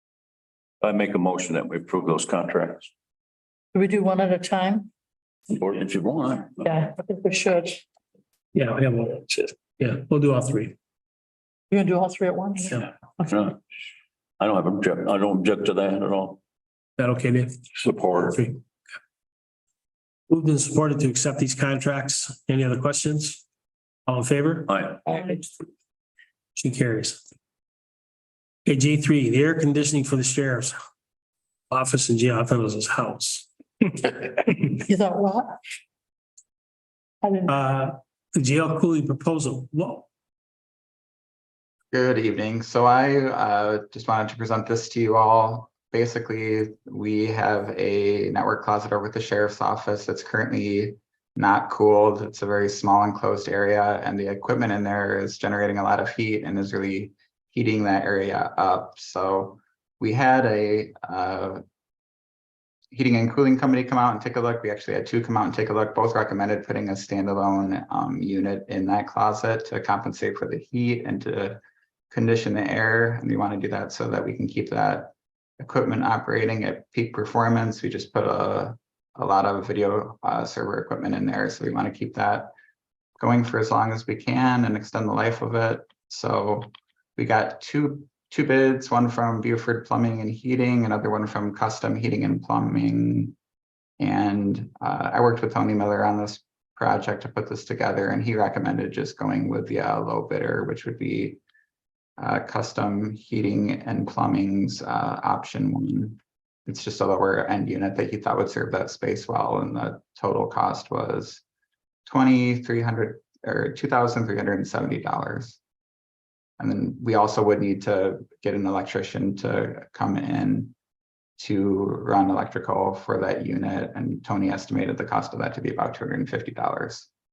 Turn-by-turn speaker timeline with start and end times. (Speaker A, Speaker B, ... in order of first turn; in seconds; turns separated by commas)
Speaker A: 0.8-2.9, Speaker B: 3.7-4.9, Speaker A: 5.6-6.6, Speaker B: 6.6-7.8, Speaker C: 8.5-10.8, Speaker B: 11.7-12.8, Speaker A: 13.3-13.6, Speaker A: 14.4-16.4, Speaker C: 17.0-17.6, Speaker A: 17.9-18.1, Speaker C: 18.2-18.6, Speaker C: 20.3-23.4, Speaker C: 24.1-24.7, Speaker A: 24.7-25.0, Speaker C: 26.6-27.2, Speaker C: 28.6-30.8, Speaker C: 31.7-33.5, Speaker B: 34.8-35.6, Speaker B: 37.2-37.6, Speaker C: 37.5-40.1, Speaker D: 41.9-61.6, Speaker D: 62.9-71.6, Speaker D: 72.1-82.5, Speaker D: 83.2-93.3, Speaker D: 94.0-101.4, Speaker D: 102.2-111.4, Speaker D: 112.1-115.6, Speaker D: 116.6-120.7, Speaker D: 121.4-127.1